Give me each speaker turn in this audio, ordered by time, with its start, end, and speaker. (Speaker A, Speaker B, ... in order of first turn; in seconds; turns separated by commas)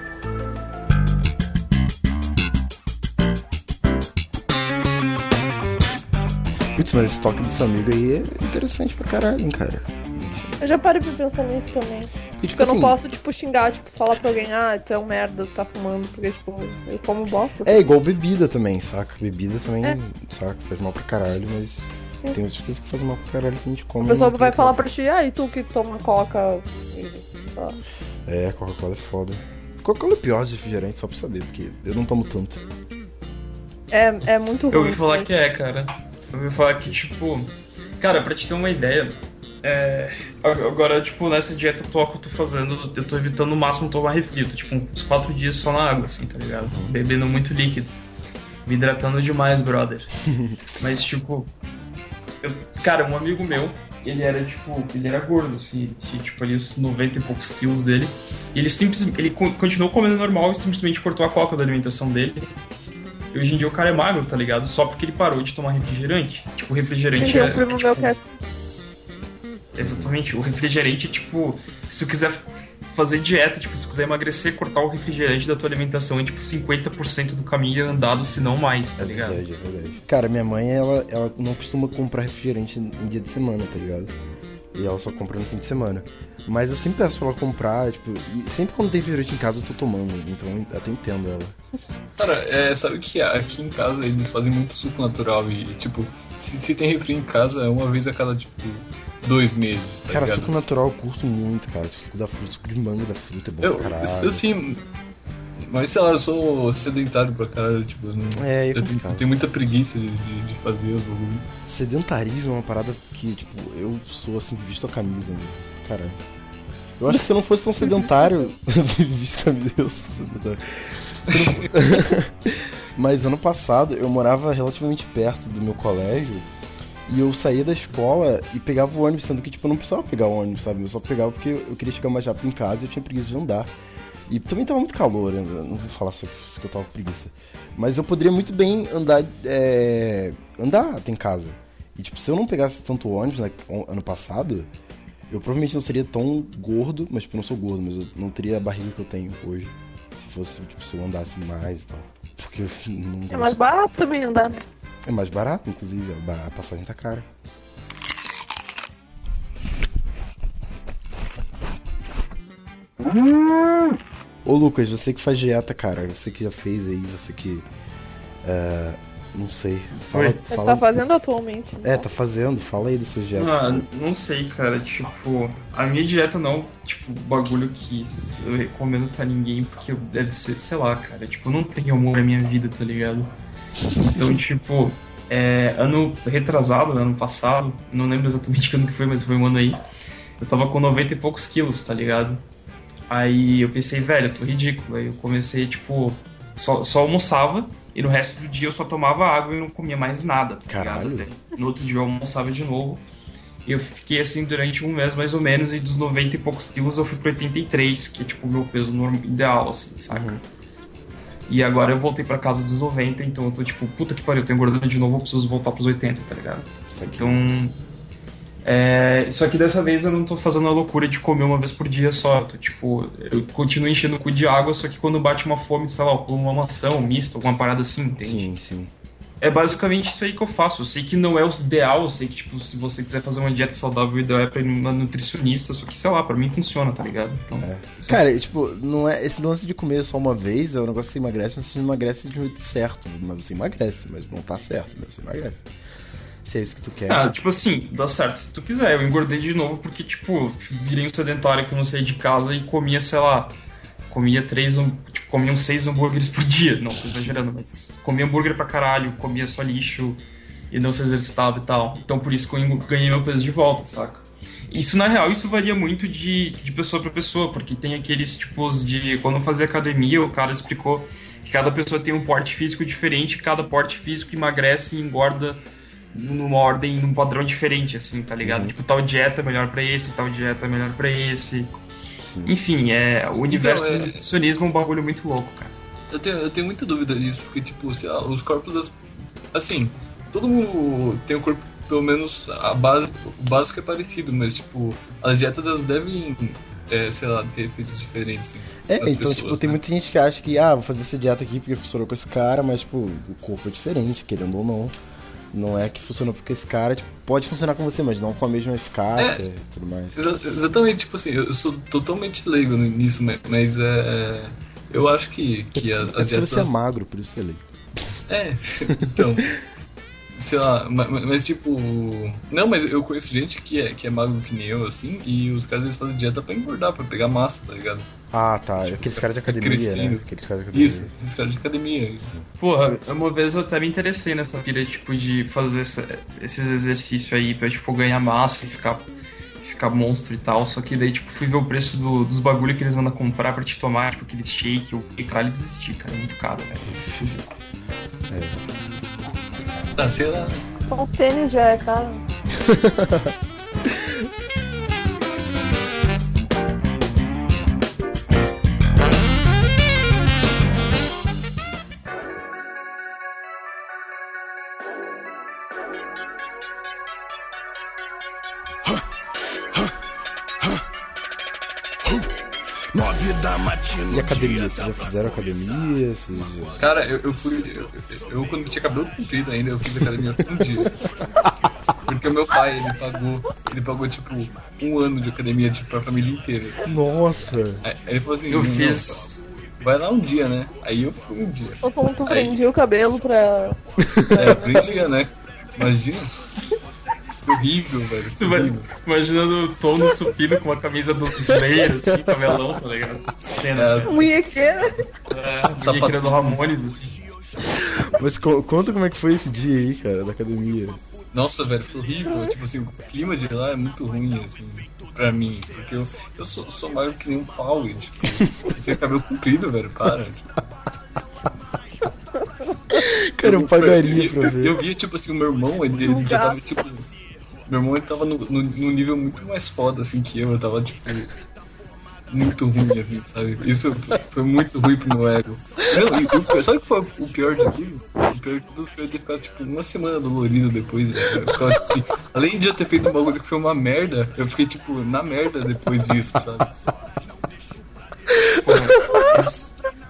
Speaker A: 6.8-10.6, Speaker B: 10.6-17.8, Speaker A: 12.4-13.0, Speaker A: 17.6-24.9, Speaker B: 24.0-27.8, Speaker A: 28.3-32.6, Speaker B: 33.9-35.3, Speaker C: 34.7-47.9, Speaker A: 46.6-46.9, Speaker C: 48.7-50.2, Speaker A: 50.3-50.6, Speaker C: 50.7-51.5, Speaker C: 52.4-62.5, Speaker C: 63.3-68.1, Speaker B: 67.1-68.4, Speaker A: 69.8-70.1, Speaker C: 69.8-79.4, Speaker A: 79.0-84.2, Speaker A: 84.7-91.6, Speaker D: 92.2-100.5, Speaker A: 100.1-104.5, Speaker D: 103.6-104.8, Speaker D: 105.6-111.5, Speaker A: 108.3-109.2, Speaker A: 111.7-116.2, Speaker A: 117.0-126.5, Speaker D: 121.3-121.7, Speaker A: 127.1-133.7, Speaker A: 134.3-144.7, Speaker A: 145.3-153.6, Speaker B: 153.3-154.6, Speaker A: 155.1-157.3, Speaker A: 164.4-167.7, Speaker A: 168.4-170.8, Speaker C: 170.0-170.4, Speaker B: 170.5-172.1, Speaker A: 171.8-173.8, Speaker C: 173.3-183.3, Speaker C: 183.9-189.8, Speaker C: 190.4-192.4, Speaker C: 193.1-203.0, Speaker A: 200.7-201.3, Speaker C: 203.7-210.4, Speaker A: 210.1-210.4, Speaker C: 211.5-217.8, Speaker A: 216.9-217.4, Speaker C: 218.6-228.5, Speaker A: 228.2-228.9, Speaker C: 229.4-238.2, Speaker A: 237.6-245.7, Speaker A: 246.4-247.3, Speaker C: 247.1-253.6, Speaker C: 254.1-281.7, Speaker A: 278.4-278.8, Speaker A: 282.2-282.5, Speaker C: 282.4-285.7, Speaker D: 283.5-284.3, Speaker D: 286.1-289.0, Speaker D: 289.5-299.8, Speaker A: 298.9-304.9, Speaker A: 305.5-310.2, Speaker D: 309.2-309.5, Speaker D: 310.1-316.7, Speaker A: 315.8-317.6, Speaker D: 318.3-319.6, Speaker D: 320.4-328.1, Speaker A: 328.3-331.1, Speaker D: 328.8-332.3, Speaker C: 332.6-339.1, Speaker C: 339.6-347.4, Speaker A: 346.9-347.4, Speaker A: 348.3-348.6, Speaker D: 350.0-350.6, Speaker B: 350.9-352.2, Speaker A: 352.5-353.4, Speaker A: 353.9-354.2, Speaker A: 374.0-376.9, Speaker D: 376.8-381.0, Speaker D: 382.1-386.9, Speaker A: 386.9-387.8, Speaker D: 387.8-389.3, Speaker C: 388.5-389.4, Speaker D: 389.8-392.6, Speaker B: 391.8-393.8, Speaker A: 394.1-394.3, Speaker B: 394.3-395.1, Speaker D: 394.4-396.3, Speaker D: 397.4-398.9, Speaker C: 398.4-404.2, Speaker D: 403.8-405.0, Speaker B: 404.1-405.0, Speaker C: 405.3-407.2, Speaker D: 405.8-406.6, Speaker A: 407.7-411.0, Speaker D: 411.3-420.6, Speaker A: 422.9-424.8, Speaker D: 423.4-427.1, Speaker B: 426.0-426.6, Speaker D: 427.7-431.3, Speaker D: 432.3-446.7, Speaker C: 448.6-449.7